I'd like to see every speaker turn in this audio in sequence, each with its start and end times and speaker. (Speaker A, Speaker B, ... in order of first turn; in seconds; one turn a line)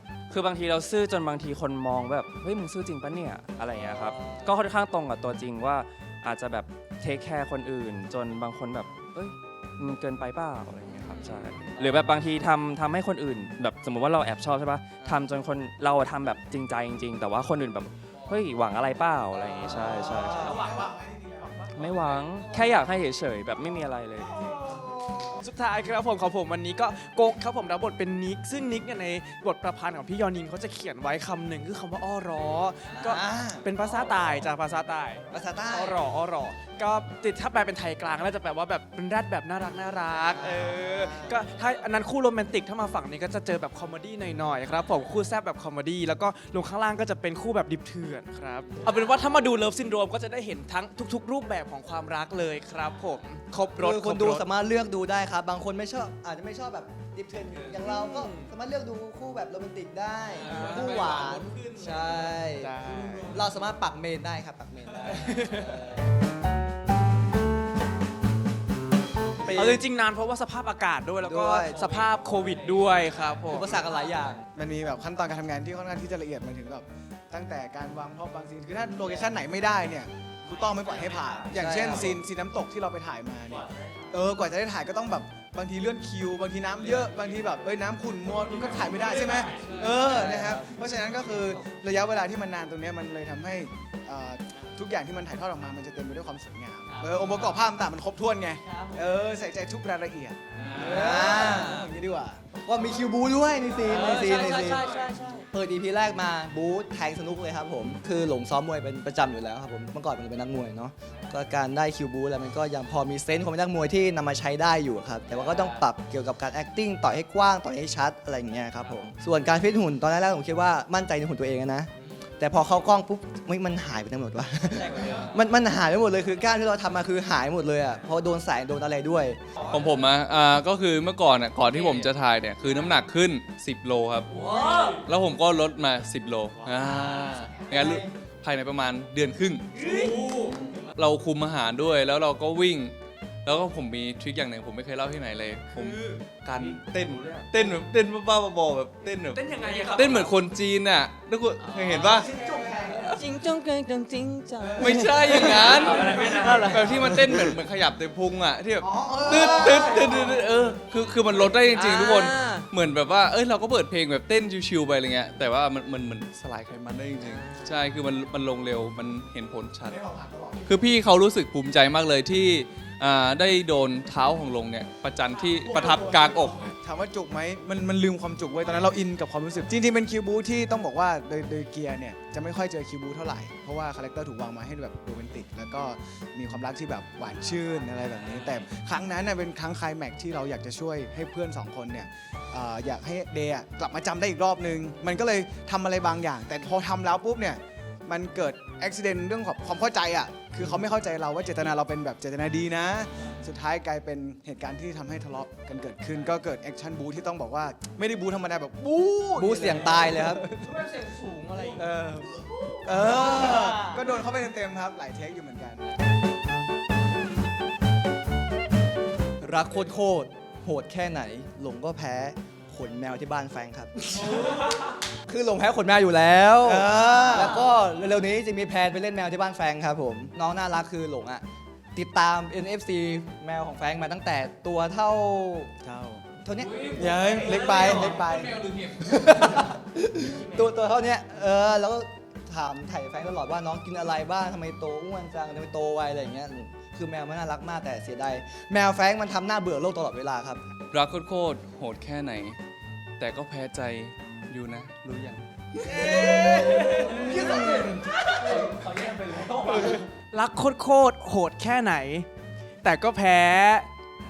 Speaker A: 0.3-20.8
Speaker B: 3.7-4.5
Speaker C: 15.0-15.2
Speaker D: 19.6-22.7
Speaker A: 21.7-24.4
Speaker E: 25.4-54.4
Speaker B: 32.9-33.7
Speaker B: 35.3-36.0
Speaker B: 40.3-41.2
Speaker B: 53.7-66.0
Speaker E: 57.8-58.5
Speaker C: 60.3-62.0
Speaker E: 60.5-61.0
Speaker D: 62.6-63.4
Speaker E: 65.1-65.8
Speaker B: 69.4-69.8
Speaker E: 69.5-73.9
Speaker B: 71.2-72.0
Speaker B: 73.5-74.5
Speaker D: 74.5-102.5
Speaker B: 81.5-82.2
Speaker F: 89.1-90.3
Speaker B: 90.0-90.5
Speaker F: 96.9-97.5
Speaker F: 98.6-99.1
Speaker C: 100.6-101.8
Speaker B: 100.8-101.8
Speaker B: 102.6-104.8
Speaker F: 103.9-105.5
Speaker C: 104.7-105.0
Speaker B: 105.5-129.4
Speaker C: 115.4-115.7
Speaker F: 124.8-125.2
Speaker C: 129.6-140.1
Speaker E: 139.8-140.7
Speaker C: 140.8-152.3
Speaker A: 146.6-147.4
Speaker E: 149.3-150.3
Speaker F: 151.7-152.6
Speaker D: 152.1-153.2
Speaker F: 153.2-157.5
Speaker D: 154.8-155.2
Speaker C: 154.8-170.0
Speaker A: 155.8-156.5
Speaker D: 158.8-160.2
Speaker B: 159.2-160.0
Speaker F: 161.7-162.7
Speaker F: 167.2-167.8
Speaker D: 169.8-170.7
Speaker C: 170.6-176.7
Speaker D: 175.7-210.6
Speaker B: 209.3-210.4
Speaker F: 210.5-214.0
Speaker D: 211.8-215.9
Speaker B: 219.4-224.7
Speaker B: 225.2-235.7
Speaker D: 226.7-227.5
Speaker D: 235.8-236.3
Speaker B: 236.4-236.9
Speaker C: 236.6-239.6
Speaker D: 236.9-238.6
Speaker B: 237.7-238.1
Speaker B: 238.9-250.6
Speaker C: 250.9-252.6
Speaker C: 253.2-255.4
Speaker B: 255.9-257.9
Speaker D: 256.9-257.9
Speaker E: 257.3-257.6
Speaker E: 258.1-262.3
Speaker E: 262.8-263.9